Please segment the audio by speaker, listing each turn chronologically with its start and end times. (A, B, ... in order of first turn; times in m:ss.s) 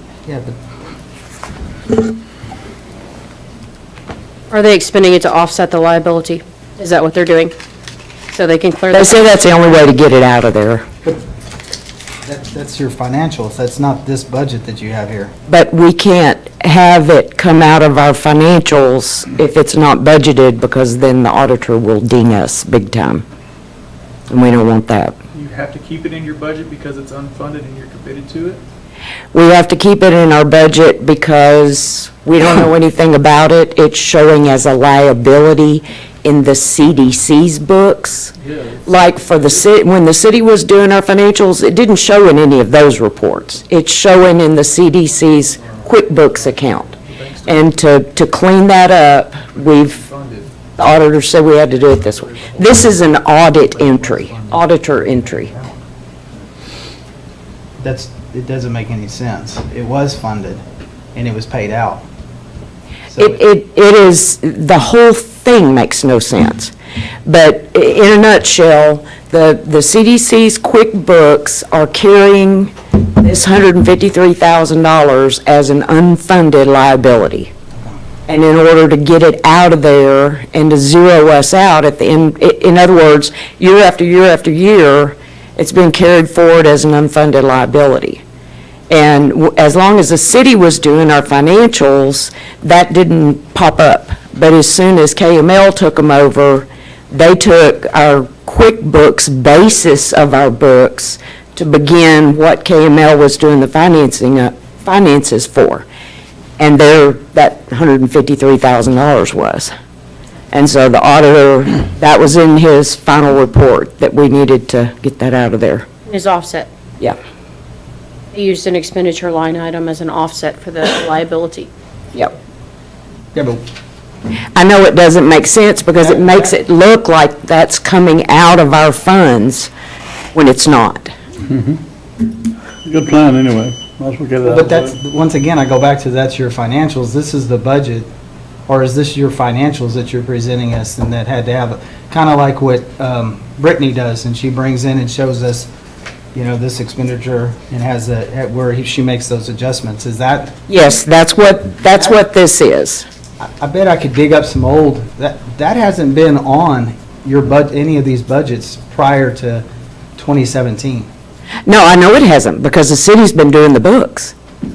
0:00.2-0:00.6 A
0:04.5-0:07.5 B
0:08.3-0:09.3 B
0:08.9-0:10.8 C
0:12.2-0:15.3 A
0:15.5-0:23.2 C
0:24.3-0:25.2 C
0:25.3-0:28.6 D
0:29.3-0:38.3 C
0:38.4-0:39.0 D
0:38.8-0:46.9 C
0:45.2-0:47.7 D
0:47.4-0:50.0 C
0:49.6-0:50.5 D
0:50.8-0:55.5 C
0:52.0-0:53.0 D
0:53.7-0:55.8 A
0:57.8-1:00.6 A
1:01.1-1:02.0 A
1:03.1-1:03.4 A
1:03.2-1:06.7 C
1:07.3-1:17.5 C
1:18.3-1:28.2 C
1:28.9-1:45.8 C
1:46.6-1:49.7 C
1:50.5-1:55.8 C
1:56.1-1:56.7 B
1:58.3-2:01.7 B
2:03.3-2:03.6 A
2:04.5-2:09.7 C
2:06.0-2:06.6 A
2:10.3-2:11.1 C
2:11.4-2:11.8 E
2:12.8-2:14.9 E
2:14.4-2:18.1 A
2:18.7-2:25.7 A
2:26.3-2:30.6 A
2:30.7-2:33.0 C
2:33.4-2:39.6 A
2:40.2-2:41.1 A
2:41.6-2:44.3 C